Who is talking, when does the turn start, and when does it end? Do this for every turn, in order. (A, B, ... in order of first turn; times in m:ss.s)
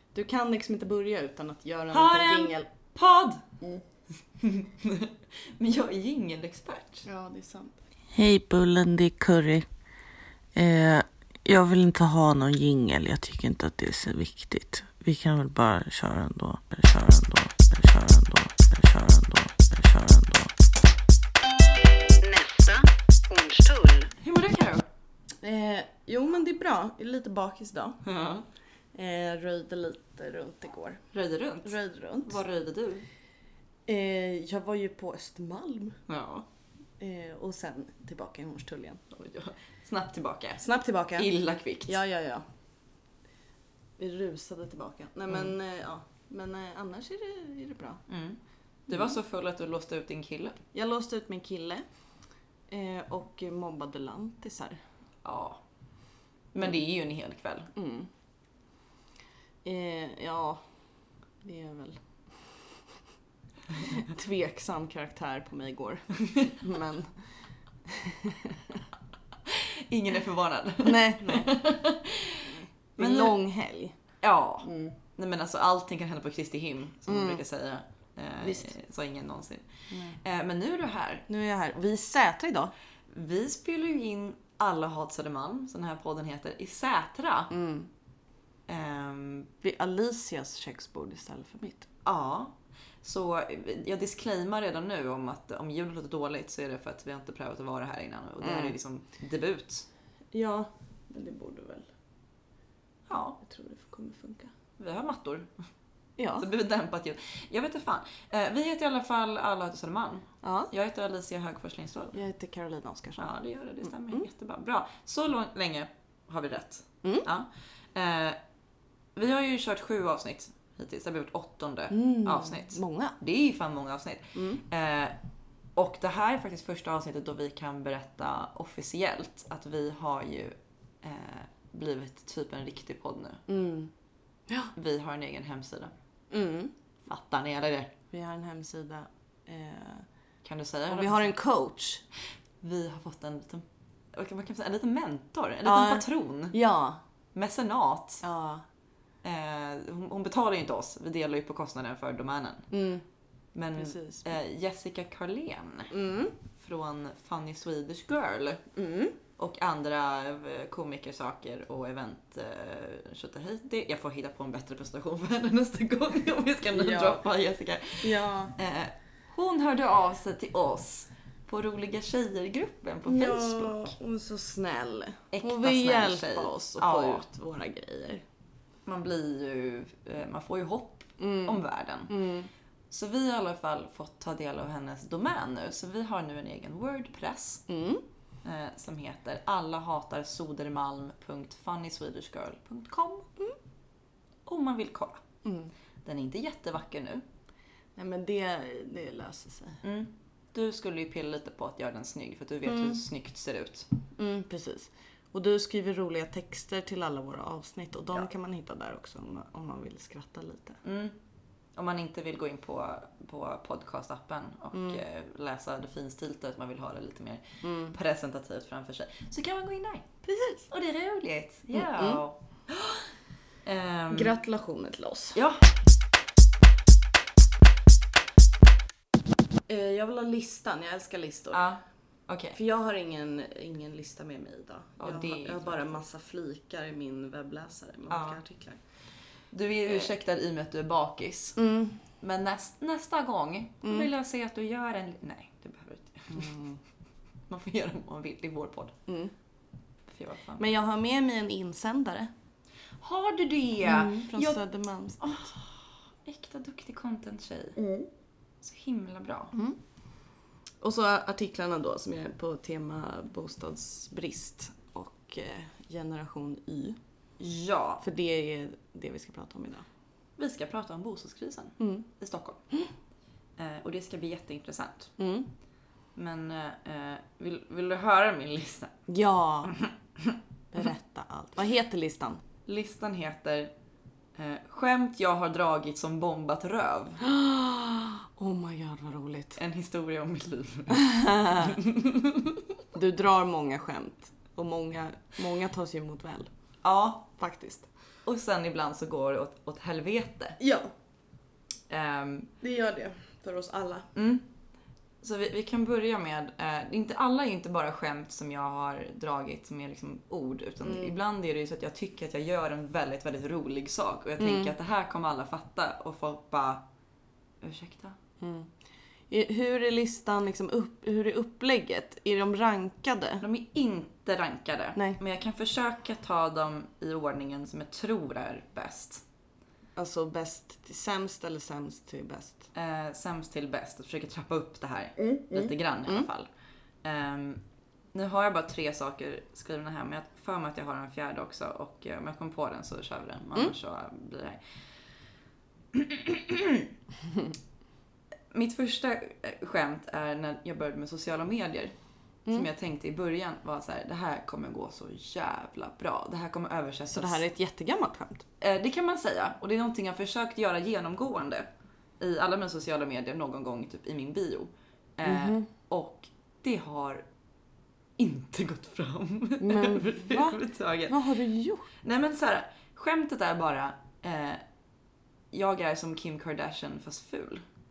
0:00.1-0:02.7 A
0:01.9-0:03.5 B
0:04.4-0:07.1 B
0:07.1-0:07.8 A
0:08.1-0:09.7 C
0:10.6-0:20.5 C
0:22.2-0:24.1 A
0:24.2-0:24.9 B
0:25.4-0:28.0 A
0:28.0-0:28.4 B
0:28.9-0:31.0 A
0:31.1-0:33.1 B
0:31.6-0:32.4 A
0:33.9-0:36.0 A
0:36.1-0:36.5 B
0:37.0-0:39.1 A
0:39.1-0:42.0 B
0:40.6-0:41.3 A
0:41.9-0:42.4 A
0:44.0-0:48.0 A
0:48.1-0:50.6 B
0:50.7-0:51.8 A
0:52.7-0:54.8 A
0:55.2-0:55.6 B
0:56.5-0:57.7 B
0:57.8-0:58.1 A
0:59.6-1:00.6 A
1:01.4-1:02.6 A
1:03.8-1:07.2 A
1:07.9-1:08.8 A
1:09.5-1:13.4 B
1:10.8-1:11.6 A
1:13.0-1:14.0 A
1:14.2-1:21.2 B
1:14.6-1:14.9 A
1:17.1-1:17.4 A
1:18.4-1:18.7 A
1:19.9-1:20.2 A
1:21.3-1:22.7 A
1:23.1-1:27.5 B
1:27.5-1:27.9 A
1:28.7-1:29.5 B
1:29.6-1:31.9 A
1:32.0-1:39.9 B
1:38.4-1:38.8 A
1:40.3-1:41.9 A
1:43.1-1:43.4 B
1:43.4-1:44.5 A
1:44.8-1:45.5 B
1:46.2-1:46.5 A
1:46.4-1:52.2 B
1:50.4-1:50.7 A
1:52.1-1:53.3 A
1:53.2-1:58.4 B
1:59.2-2:05.2 B
2:01.9-2:03.2 A
2:04.4-2:04.6 A
2:05.8-2:13.4 B
2:13.5-2:13.9 A
2:14.5-2:14.7 A
2:14.7-2:15.9 B
2:16.3-2:16.7 A
2:17.1-2:17.9 B
2:18.1-2:20.1 A
2:20.4-2:21.3 B
2:20.9-2:22.0 A
2:22.6-2:26.6 B
2:25.6-2:27.0 A
2:27.4-2:28.2 B
2:28.2-2:28.6 A
2:29.2-2:32.7 B
2:32.7-2:33.0 A
2:33.6-2:36.0 B
2:33.8-2:34.2 A
2:35.9-2:36.4 A
2:36.6-2:38.6 B
2:38.7-2:39.2 A
2:39.4-2:54.0 B
2:46.7-2:47.2 A
2:48.0-2:48.6 A
2:53.1-2:58.2 A
2:55.3-2:57.2 B
2:58.9-3:02.2 B
3:01.2-3:02.5 A
3:02.9-3:07.6 B
3:07.7-3:08.0 A
3:08.4-3:13.3 B
3:14.5-3:15.2 B
3:15.4-3:15.7 A
3:16.0-3:17.2 B
3:18.0-3:19.8 A
3:19.8-3:23.9 B
3:22.7-3:23.0 A
3:24.2-3:30.8 A
3:30.8-3:31.2 B
3:31.8-3:40.2 B
3:34.7-3:35.0 A
3:37.6-3:38.0 A
3:40.2-3:40.7 A
3:40.7-3:43.1 B
3:41.7-3:42.2 A
3:43.6-3:44.4 B
3:44.1-3:45.4 A
3:45.4-3:45.7 B
3:49.7-3:51.6 A
3:51.5-3:52.6 B
3:52.6-3:58.8 A
3:55.0-3:56.0 B
3:58.1-3:58.4 B
3:59.5-4:01.6 B
4:01.6-4:02.0 A
4:02.2-4:06.7 B
4:06.3-4:06.8 A
4:07.5-4:09.0 B
4:09.1-4:09.3 A
4:10.1-4:10.6 B
4:10.6-4:12.3 A
4:13.0-4:14.6 B
4:13.8-4:15.5 A
4:15.2-4:15.7 B
4:16.2-4:17.8 B
4:17.8-4:18.1 A
4:18.6-4:19.5 B
4:19.5-4:19.8 A
4:20.8-4:27.0 A
4:27.4-4:28.0 B
4:28.0-4:29.9 A
4:30.4-4:32.6 B
4:31.8-4:32.1 A
4:33.6-4:35.1 B
4:35.2-4:35.5 A
4:36.2-4:39.0 B
4:39.1-4:39.8 A
4:39.8-4:40.4 B
4:40.7-4:42.4 A
4:42.7-4:43.7 B
4:44.4-4:47.2 B
4:47.2-4:49.6 A
4:49.6-4:52.2 B
4:50.9-4:52.1 A
4:52.9-4:56.5 A
4:56.8-4:57.3 B
4:57.4-4:57.9 A
4:58.2-5:00.6 B
5:00.6-5:00.9 A
5:01.9-5:02.5 B
5:02.6-5:04.1 A
5:04.2-5:04.5 B
5:05.2-5:16.8 B
5:10.8-5:11.2 A
5:14.4-5:14.7 A
5:17.6-5:18.2 B
5:18.4-5:18.7 A
5:19.3-5:23.4 A
5:23.4-5:29.2 B
5:30.0-5:32.7 A
5:32.7-5:36.5 B
5:35.2-5:36.3 A
5:37.0-5:37.6 B
5:38.1-5:44.6 B
5:45.9-5:46.9 B
5:48.5-5:51.9 B
5:52.5-5:57.4 B
5:57.1-5:58.5 A
5:58.6-6:01.7 B
6:02.2-6:07.2 B
6:05.3-6:05.6 A
6:08.2-6:11.3 B
6:09.6-6:11.9 A
6:12.0-6:14.6 B
6:15.5-6:17.6 B